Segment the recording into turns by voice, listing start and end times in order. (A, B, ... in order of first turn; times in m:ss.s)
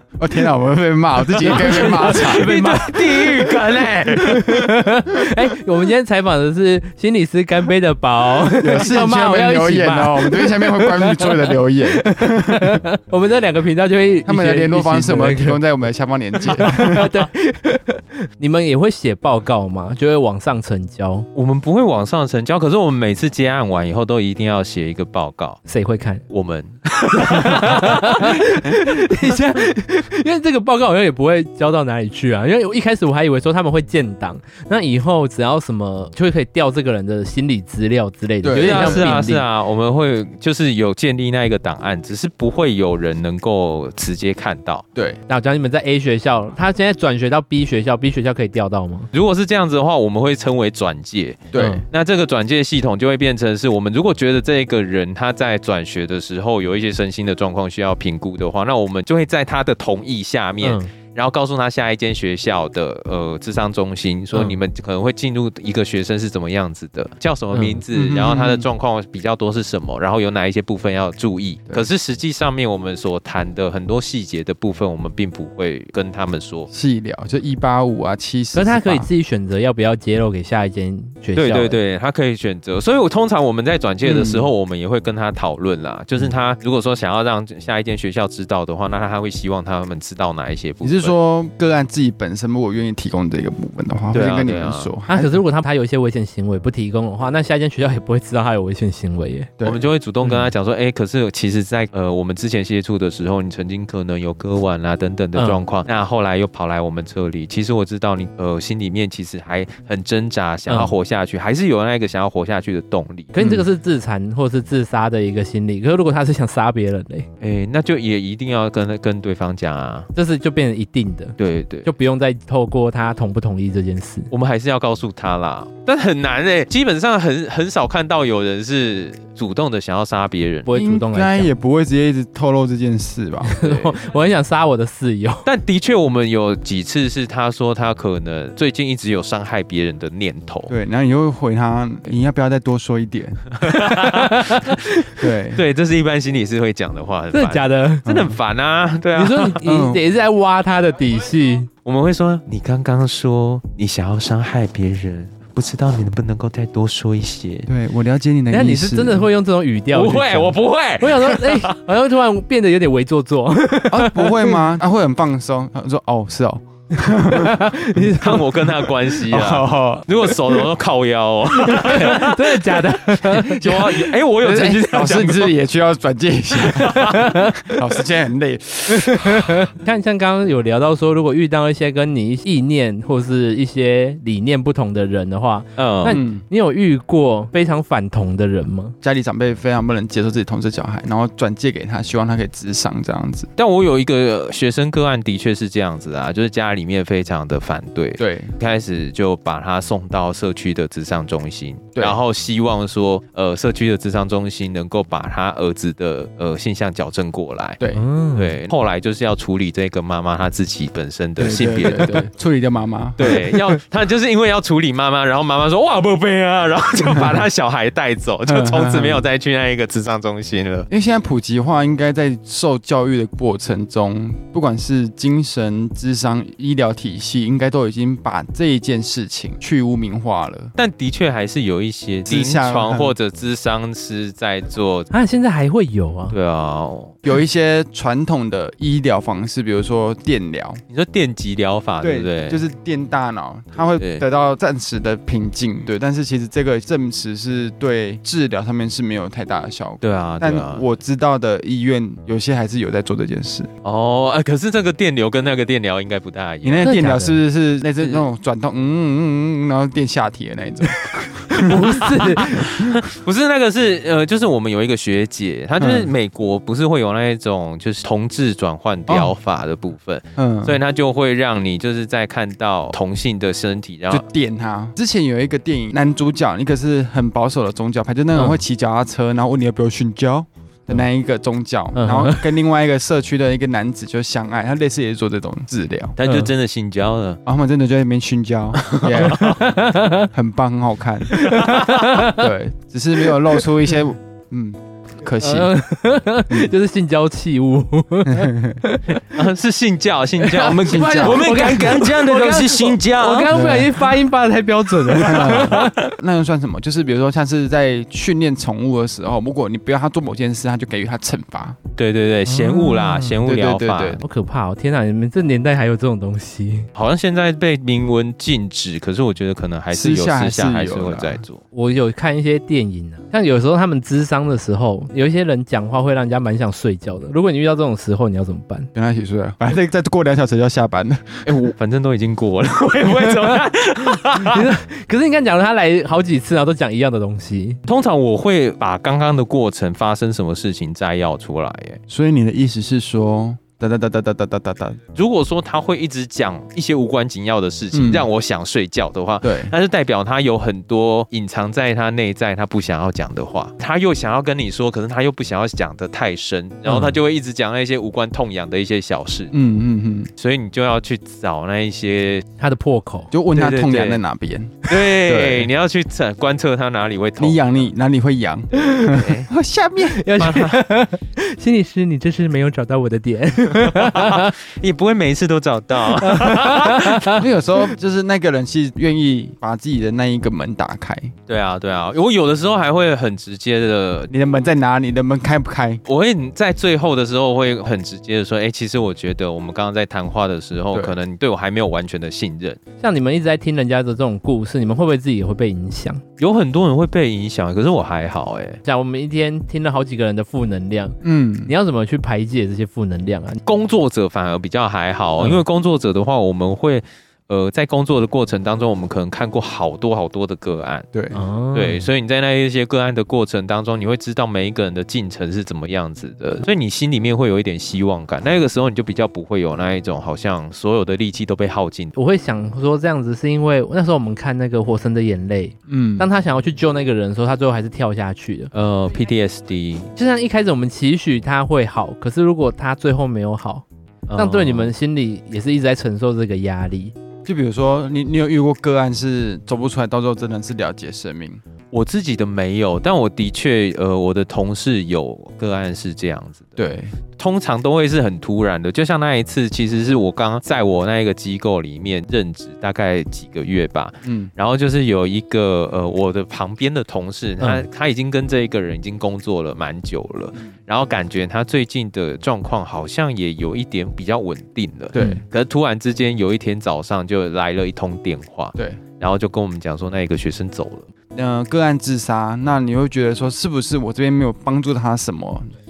0:00.2-0:02.5 A
0:01.4-0:04.4 B
0:01.4-0:03.6 C
0:04.2-0:04.6 A
0:04.2-0:15.6 C
0:08.6-0:12.8 A
0:14.2-0:17.2 A
0:16.4-0:21.3 C
0:21.3-0:25.6 B
0:25.6-0:26.2 C
0:26.3-0:28.4 B
0:27.2-0:39.4 C
0:38.4-0:39.2 A
0:38.5-0:44.8 B
0:44.9-0:45.2 A
0:45.3-0:49.1 C
0:49.1-1:16.7 B
0:51.5-0:51.8 A
0:51.5-0:51.8 C
1:00.6-1:00.9 C
1:07.5-1:07.8 C
1:07.9-1:08.6 A
1:16.7-1:19.1 A
1:18.5-1:21.8 C
1:21.4-1:31.1 B
1:24.0-1:24.5 A
1:30.8-1:35.4 A
1:34.1-1:34.9 B
1:35.1-1:39.5 C
1:39.6-1:53.3 B
1:40.2-1:40.5 C
1:45.3-1:45.6 C
1:50.7-1:50.9 C
1:53.3-1:57.3 C
1:53.4-1:53.6 A
1:57.4-2:00.1 B
2:00.1-2:04.3 C
2:01.4-2:01.9 B
2:04.3-2:10.7 B
2:10.7-2:11.5 C
2:10.7-2:13.8 A
2:13.5-2:15.4 C
2:13.6-2:13.9 B
2:15.4-2:20.7 B
2:20.7-2:23.5 A
2:23.6-2:24.8 B
2:23.7-2:25.0 C
2:25.2-2:25.6 A
2:25.5-2:29.6 B
2:27.3-2:28.0 C
2:28.0-2:28.4 A
2:29.1-2:31.7 C
2:29.6-2:30.0 A
2:31.8-2:37.7 B
2:37.7-2:39.3 A
2:38.5-2:44.6 C
2:39.9-2:41.8 B
2:43.9-2:48.2 A
2:47.2-2:48.5 C
2:48.0-2:55.6 B
2:49.1-2:50.7 A
2:51.6-2:53.7 C
2:53.4-2:59.7 A
2:56.6-2:57.3 B
2:57.1-2:57.7 C
2:58.9-3:09.0 C
3:05.8-3:06.2 B
3:06.1-3:06.4 A
3:09.0-3:13.5 A
3:13.6-3:27.8 B
3:18.2-3:18.5 A
3:27.8-3:28.0 A
3:27.9-3:28.6 C
3:28.3-3:32.3 B
3:31.4-3:33.4 A
3:33.2-3:40.9 B
3:37.1-3:37.4 A
3:38.5-3:39.2 A
3:40.9-3:50.7 A
3:50.8-3:55.1 B
3:52.2-3:53.1 A
3:55.1-3:56.3 C
3:56.3-3:57.2 B
3:57.2-4:00.8 A
4:00.9-4:02.6 B
4:02.0-4:13.7 A
4:04.0-4:04.2 B
4:10.0-4:10.8 B
4:13.8-4:17.0 B
4:16.6-4:23.0 A
4:16.8-4:17.4 C
4:21.5-4:22.8 C
4:21.7-4:34.2 B
4:25.8-4:26.1 A
4:29.1-4:29.3 A
4:30.4-4:30.8 A
4:34.1-4:46.2 A
4:38.3-4:38.6 C
4:42.0-4:42.5 C
4:46.2-4:47.4 B
4:46.2-4:46.5 C
4:47.4-4:49.7 A
4:48.8-4:49.6 B
4:49.2-4:50.3 C
4:50.3-4:51.6 A
4:51.3-4:52.3 B
4:51.3-4:52.5 C
4:52.1-4:55.7 A
4:55.4-4:59.4 C
4:58.2-4:58.8 A
4:59.3-5:03.5 B
5:00.4-5:06.1 C
5:00.8-5:01.6 A
5:03.5-5:04.0 A
5:05.1-5:11.8 A
5:12.0-5:14.2 B
5:12.7-5:13.2 C
5:12.8-5:14.2 A
5:14.2-5:16.9 C
5:16.9-5:21.6 B
5:19.9-5:21.4 A
5:21.7-5:28.9 C
5:28.9-5:31.5 A
5:31.4-5:34.7 B
5:34.1-5:37.8 C
5:37.8-5:42.0 B
5:42.1-5:45.0 A
5:45.1-5:59.5 B
5:47.9-5:48.3 A
5:49.4-5:49.7 A
5:56.9-5:57.1 C
5:59.5-6:00.3 A
6:00.4-6:02.4 B
6:02.6-6:03.3 C
6:03.3-6:05.7 A
6:03.5-6:04.2 B
6:04.8-6:07.9 B
6:07.4-6:10.3 A
6:08.8-6:09.5 B
6:10.1-6:14.5 C
6:10.4-6:10.8 B
6:13.8-6:17.4 B
6:16.1-6:17.4 C
6:17.2-6:21.3 A
6:21.5-6:24.3 B
6:24.3-6:26.0 A
6:26.0-6:32.8 B
6:30.9-6:31.2 A
6:33.0-6:36.2 C
6:36.4-6:38.8 B
6:38.8-6:43.6 C
6:41.2-6:41.7 A
6:43.6-6:51.1 B
6:51.1-6:51.4 A
6:51.3-6:52.1 C
6:51.7-7:02.1 B
7:02.2-7:08.7 C
7:05.9-7:06.3 A
7:08.7-7:10.1 B
7:10.2-7:13.8 C
7:14.3-7:14.9 B
7:14.4-7:17.1 C
7:17.4-7:21.6 A
7:21.9-7:51.1 B
7:26.8-7:27.1 A
7:34.2-7:34.5 A
7:37.6-7:37.8 C
7:45.1-7:45.4 A
7:45.2-7:45.4 C
7:48.8-7:49.0 A
7:51.3-7:55.7 A